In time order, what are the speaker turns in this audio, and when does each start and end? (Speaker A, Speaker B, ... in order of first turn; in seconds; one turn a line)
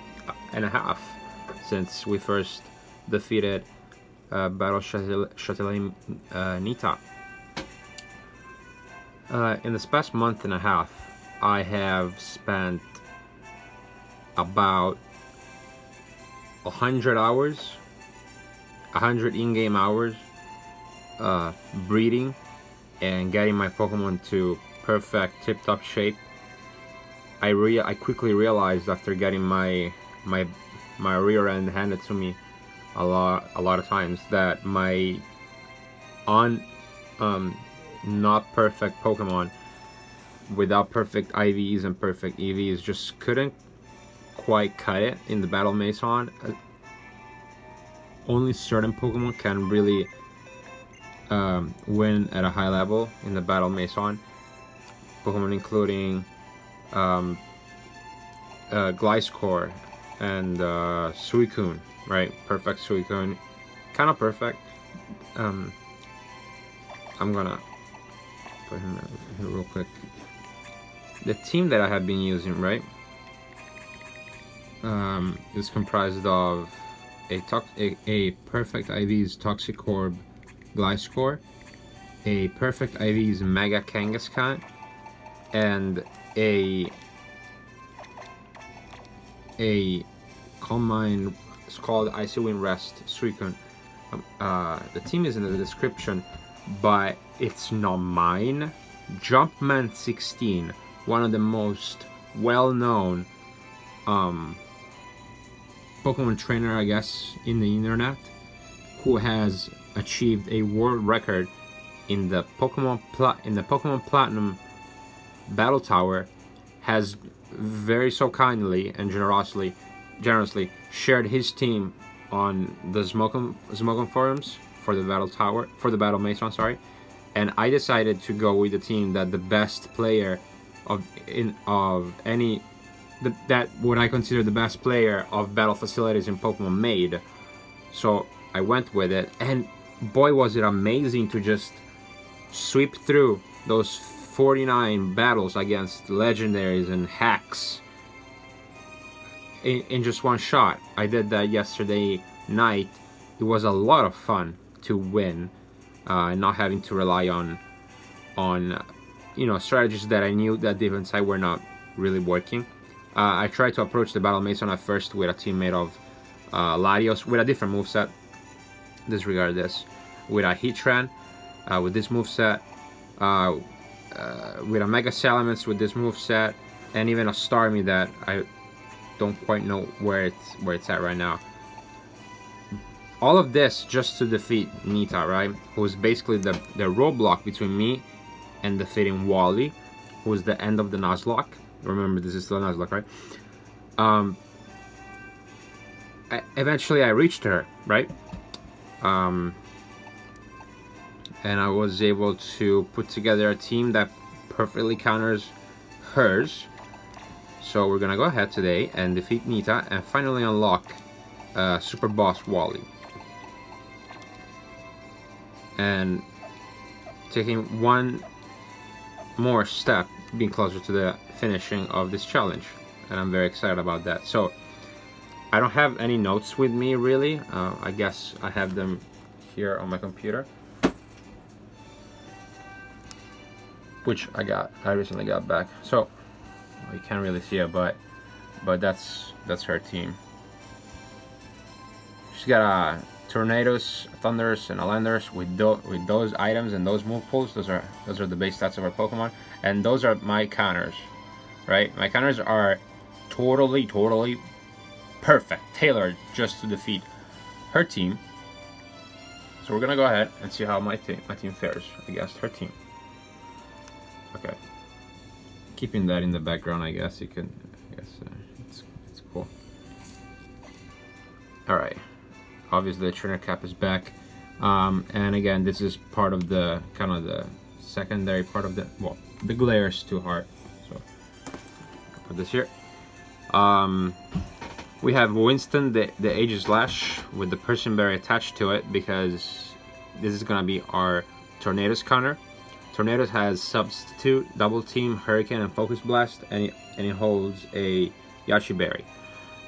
Speaker A: 0.3-3.7
Speaker A: 4.3-7.0
Speaker A: 9.3-13.0
Speaker A: 14.3-15.0
Speaker A: 16.6-17.8
Speaker A: 18.9-20.2
Speaker A: 21.2-22.4
Speaker A: 23.0-26.2
Speaker A: 27.4-32.4
Speaker A: 32.9-35.2
Speaker A: 36.2-36.6
Speaker A: 37.2-39.5
Speaker A: 40.5-43.5
Speaker A: 44.3-46.5
Speaker A: 48.2-50.1
Speaker A: 51.3-54.2
Speaker A: 55.2-56.3
Speaker A: 56.9-57.4
Speaker A: 58.7-63.4
Speaker A: 63.9-64.7
Speaker A: 65.3-65.8
Speaker A: 67.2-67.6
Speaker A: 68.7-70.0
Speaker A: 71.2-72.8
Speaker A: 74.8-81.4
Speaker A: 82.2-84.6
Speaker A: 85.5-86.9
Speaker A: 89.6-90.1
Speaker A: 90.6-103.3
Speaker A: 104.0-104.6
Speaker A: 106.0-108.3
Speaker A: 109.0-111.5
Speaker A: 112.1-114.6
Speaker A: 115.5-126.8
Speaker A: 127.3-132.6
Speaker A: 133.2-137.2
Speaker A: 137.9-141.8
Speaker A: 142.5-147.8
Speaker A: 149.6-155.5
Speaker A: 156.1-157.6
Speaker A: 158.3-158.8
Speaker A: 159.3-168.1
Speaker A: 169.1-171.1
Speaker A: 171.7-172.6
Speaker A: 173.2-178.4
Speaker A: 179.2-181.4
Speaker A: 183.2-188.1
Speaker A: 188.6-193.1
Speaker A: 194.0-194.4
Speaker A: 196.3-198.1
Speaker A: 199.0-199.6
Speaker A: 201.4-206.7
Speaker A: 207.6-211.0
Speaker A: 211.5-212.9
Speaker A: 215.8-216.2
Speaker A: 217.3-218.2
Speaker A: 219.4-224.6
Speaker A: 225.5-230.5
Speaker A: 234.0-236.1
Speaker A: 236.8-238.0
Speaker A: 238.6-240.2
Speaker A: 242.3-251.1
Speaker A: 251.7-254.4
Speaker A: 255.2-257.1
Speaker A: 257.7-258.2
Speaker A: 259.6-262.7
Speaker A: 264.3-264.6
Speaker A: 265.7-269.5
Speaker A: 271.7-272.0
Speaker A: 272.7-281.0
Speaker A: 282.2-282.7
Speaker A: 283.5-284.2
Speaker A: 285.0-292.4
Speaker A: 292.9-299.1